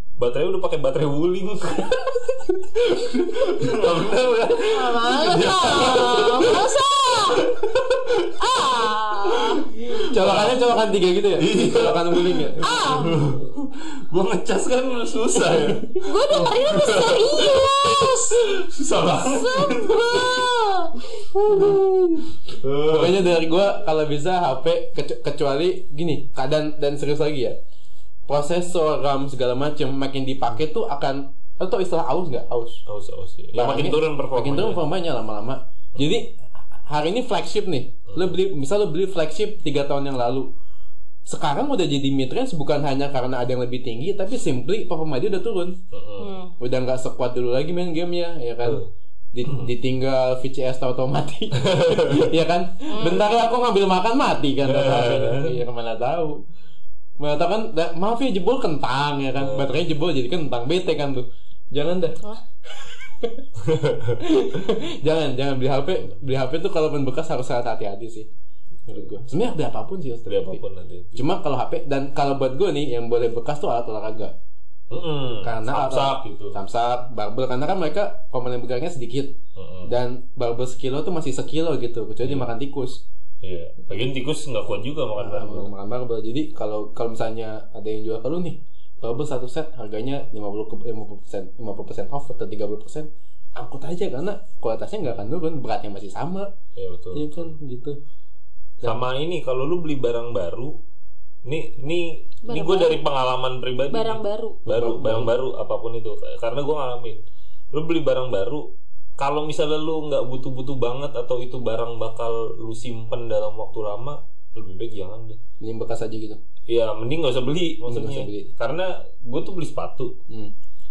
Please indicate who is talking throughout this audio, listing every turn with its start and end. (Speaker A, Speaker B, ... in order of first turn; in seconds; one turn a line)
Speaker A: 0.2-8.4
Speaker B: 3.4-4.1
Speaker C: 4.6-7.5
Speaker B: 5.1-6.4
Speaker C: 8.3-9.8
Speaker A: 9.5-10.6
Speaker B: 9.9-12.7
Speaker A: 11.4-20.5
Speaker C: 12.6-13.3
Speaker C: 15.9-18.6
Speaker C: 19.1-20.9
Speaker A: 21.2-21.8
Speaker B: 21.5-22.3
Speaker A: 22.4-23.3
Speaker B: 22.9-27.6
Speaker B: 28.3-32.8
Speaker A: 32.9-34.8
Speaker B: 33.5-40.5
Speaker A: 38.1-38.4
Speaker B: 41.3-45.8
Speaker A: 45.9-46.4
Speaker C: 46.2-46.5
Speaker B: 46.6-56.5
Speaker A: 48.6-48.9
Speaker A: 49.4-49.7
Speaker A: 51.6-52.3
Speaker C: 52.9-53.3
Speaker A: 54.6-55.6
Speaker B: 57.2-62.2
Speaker A: 59.4-59.8
Speaker B: 62.8-63.5
Speaker A: 63.6-64.2
Speaker B: 64.2-68.3
Speaker B: 68.9-70.6
Speaker A: 70.3-71.2
Speaker B: 71.2-74.3
Speaker A: 74.9-76.6
Speaker B: 75.4-79.3
Speaker A: 79.6-79.9
Speaker B: 79.9-83.0
Speaker A: 83.4-85.7
Speaker B: 85.2-96.5
Speaker A: 96.8-97.5
Speaker B: 97.1-98.0
Speaker A: 98.8-100.8
Speaker A: 101.5-115.4
Speaker C: 102.4-103.1
Speaker C: 103.9-104.6
Speaker B: 104.7-105.3
Speaker B: 115.6-116.4
Speaker A: 116.7-120.2
Speaker B: 117.9-118.5